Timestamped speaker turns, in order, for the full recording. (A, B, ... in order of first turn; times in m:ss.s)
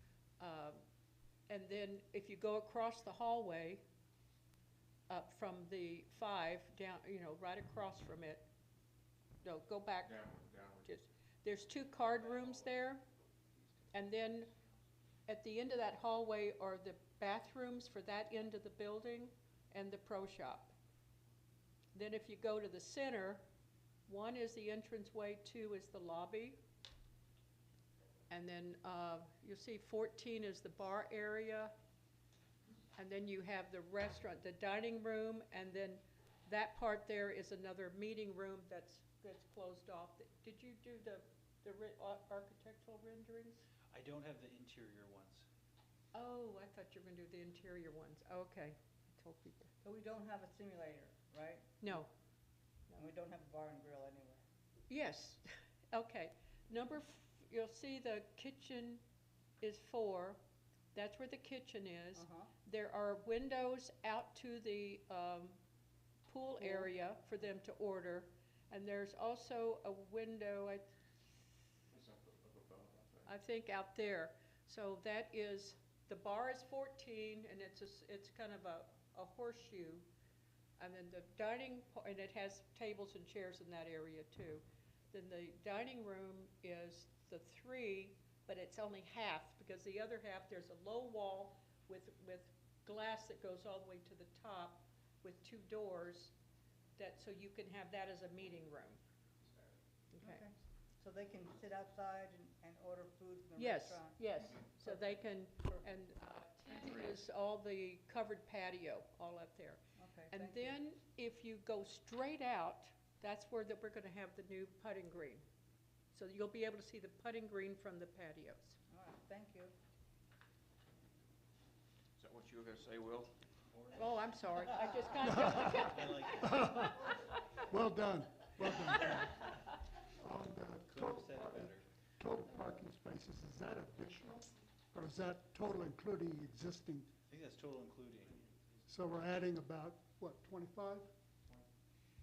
0:00.4-0:00.8 A
0:01.5-0:03.8 A
0:05.1-0:08.4 A
0:09.4-0:13.0 A
0:10.0-0:11.0 B
0:13.9-0:14.5 A
0:15.3-0:20.7 A
0:21.9-0:23.4 A
0:24.1-0:26.6 A
0:28.3-0:31.7 A
0:32.9-0:43.6 A
0:43.9-0:45.4 C
0:46.1-0:49.7 A
0:49.8-0:51.9 D
0:51.8-0:52.1 A
0:52.9-0:54.4 D
0:54.9-0:59.0 A
0:59.6-1:00.4 A
1:00.9-1:05.6 A
1:02.2-1:02.5 D
1:06.3-1:10.9 A
1:11.9-1:13.3 B
1:13.2-1:20.1 A
1:20.8-1:36.3 A
1:37.0-1:39.0 A
1:40.1-1:40.4 A
1:40.2-1:45.1 D
1:43.6-1:55.4 A
1:50.0-1:50.8 D
1:56.1-1:58.8 A
1:58.9-1:59.7 D
2:02.2-2:03.3 B
2:03.7-2:04.8 C
2:04.0-2:06.3 A
2:05.2-2:07.1 E
2:05.7-2:07.1 C
2:07.7-2:09.5 E
2:10.2-2:17.1 E
2:10.8-2:11.8 C
2:17.2-2:18.5 C
2:18.9-2:21.1 E